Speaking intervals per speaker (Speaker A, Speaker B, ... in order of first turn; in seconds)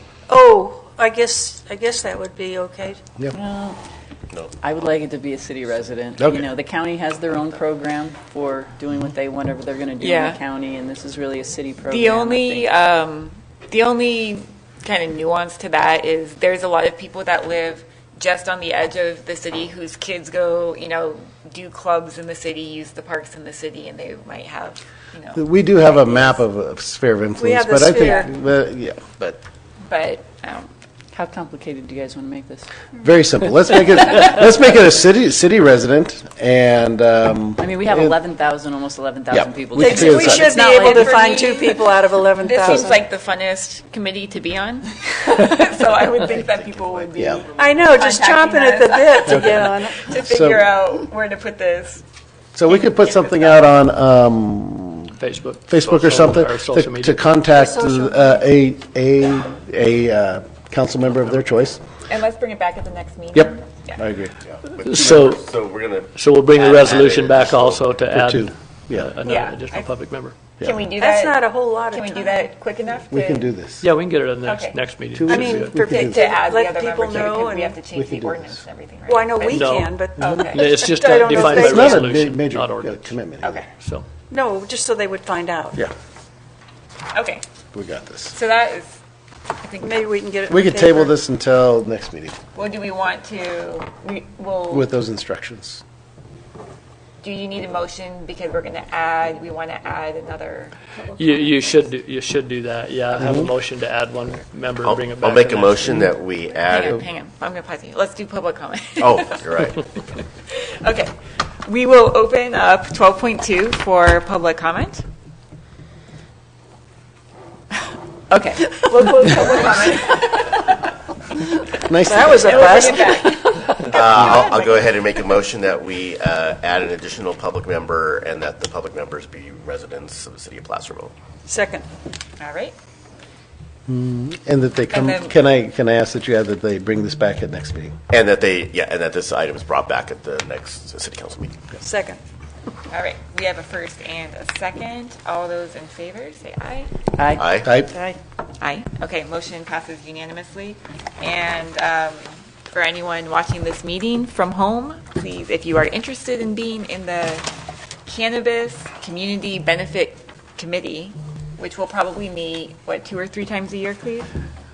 Speaker A: 0.3-3.0, 27.4-28.3, 39.8-43.0, 47.6-50.1, 57.5-58.4, 71.0-72.5, 75.3-77.8, 79.1-82.1, 84.3-85.8, 89.8-91.2, 122.0-123.8, 131.5-131.8, 141.8-142.2, 147.9-148.2
Speaker B: 3.3-3.8, 4.6-12.7, 31.1-32.7, 37.6-41.4, 118.3-119.9, 147.2-147.5
Speaker C: 10.0-10.4, 11.9-26.4, 29.8-30.7, 40.6-52.0, 62.1-64.0, 69.2-69.9, 70.6-73.5, 74.4-74.8, 75.8-79.7, 80.2-80.8, 83.4-83.7, 87.1-87.4, 88.3-89.0, 89.6-90.1, 92.5-94.9, 97.2-101.7, 106.6-109.8, 110.5-115.0, 118.6-120.7, 122.3-124.6, 132.4-132.7, 134.9-135.3, 142.9-146.9, 148.6-157.5, 158.1-164.3
Speaker D: 25.3-29.2, 33.0-38.1, 39.3-40.6, 47.2-47.4, 49.3-50.7, 52.5-55.2, 55.7-61.8, 63.3-64.3, 68.1-69.1, 70.6-70.8, 73.1-73.8, 75.1-76.3, 77.9-78.6, 81.1-83.6, 87.7-88.3, 90.5-92.4, 94.7-95.8, 103.2-103.5, 121.8-123.1, 133.9-138.0, 147.6-147.9
Speaker E: 46.5-47.1, 64.5-68.0, 104.8-107.0, 109.0-109.8, 123.8-131.1, 138.1-141.6, 147.3-147.8
Speaker F: 55.2-57.2, 64.8-65.4, 66.1-70.3, 73.8-75.8, 79.5-83.1, 83.8-84.0, 101.2-106.0